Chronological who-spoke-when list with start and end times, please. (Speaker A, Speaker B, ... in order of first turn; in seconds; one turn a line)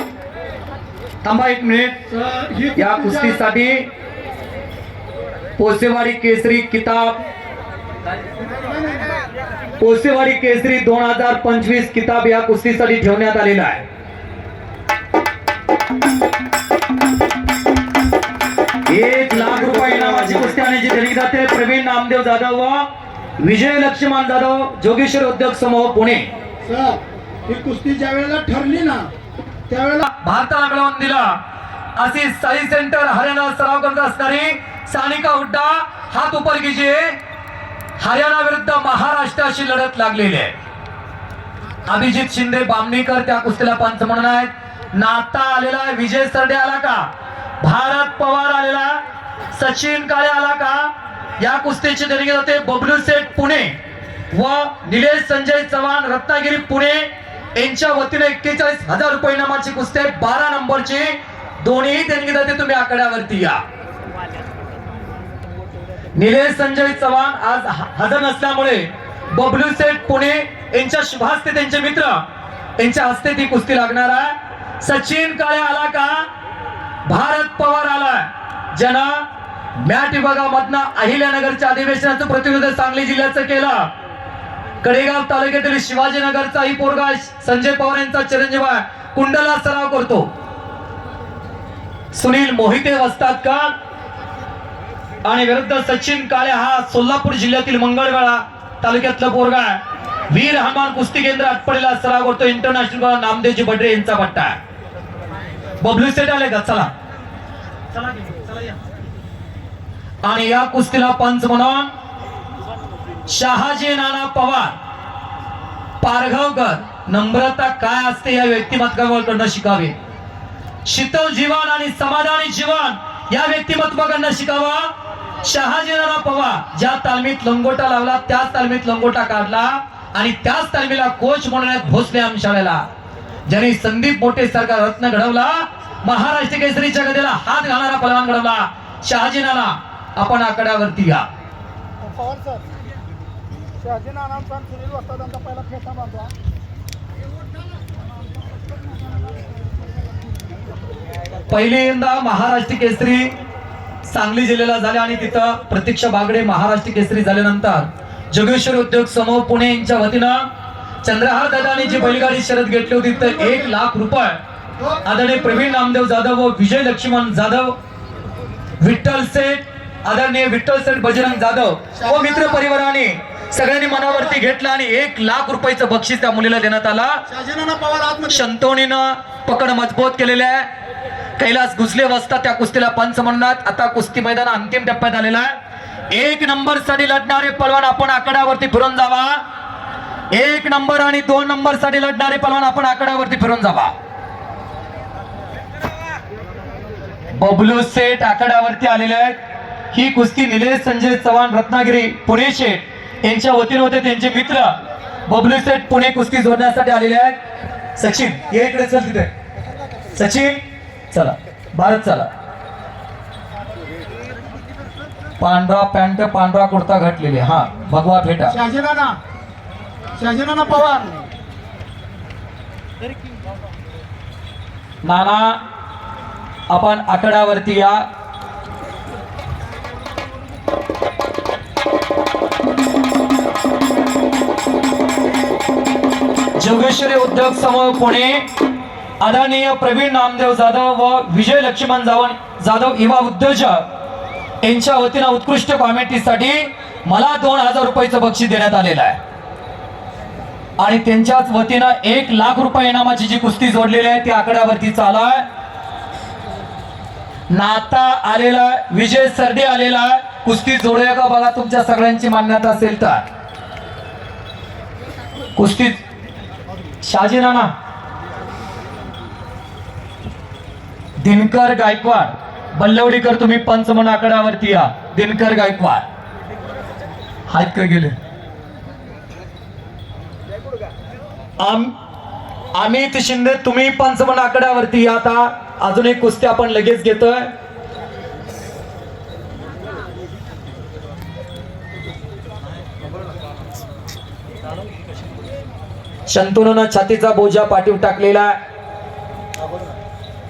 Speaker A: 1.2-2.1
Speaker B: 2.2-3.3
Speaker A: 2.8-3.9
Speaker A: 5.6-7.2
Speaker B: 8.5-9.1
Speaker A: 9.8-13.8
Speaker A: 18.9-22.9
Speaker A: 23.4-26.3
Speaker B: 26.6-29.1
Speaker B: 29.7-30.1
Speaker A: 30.1-31.4
Speaker A: 32.0-37.2
Speaker A: 38.0-40.6
Speaker A: 41.9-47.1
Speaker A: 47.6-49.0
Speaker A: 49.5-53.8
Speaker A: 54.3-63.6
Speaker A: 66.2-72.2
Speaker A: 72.8-76.3
Speaker A: 77.1-83.9
Speaker A: 84.8-90.3
Speaker A: 92.1-93.7
Speaker A: 95.2-104.6
Speaker A: 105.8-106.9
Speaker A: 110.2-111.9
Speaker A: 113.3-114.8
Speaker A: 116.0-120.0
Speaker A: 120.9-132.9
Speaker A: 133.5-141.3
Speaker B: 142.2-142.6
Speaker B: 143.8-146.3
Speaker A: 151.5-153.3
Speaker A: 154.0-160.4
Speaker A: 161.0-164.4
Speaker A: 165.0-167.8
Speaker A: 168.8-177.2
Speaker B: 177.3-178.4
Speaker A: 178.3-180.7
Speaker A: 181.4-185.5
Speaker A: 186.1-189.4
Speaker A: 190.3-193.9
Speaker A: 197.4-199.4
Speaker A: 199.9-204.8
Speaker A: 205.3-207.4
Speaker A: 208.0-209.3
Speaker A: 210.1-212.3
Speaker A: 215.4-218.6
Speaker B: 218.5-219.2
Speaker B: 220.2-221.3
Speaker A: 225.0-225.6
Speaker A: 226.7-228.1
Speaker A: 236.6-238.5
Speaker A: 239.2-243.8
Speaker A: 244.6-249.2
Speaker A: 250.8-255.5
Speaker A: 257.5-263.2
Speaker A: 265.6-266.0
Speaker A: 267.0-267.7
Speaker A: 271.2-276.0
Speaker A: 277.5-278.1
Speaker A: 281.6-281.9
Speaker A: 282.7-287.5
Speaker A: 296.3-298.6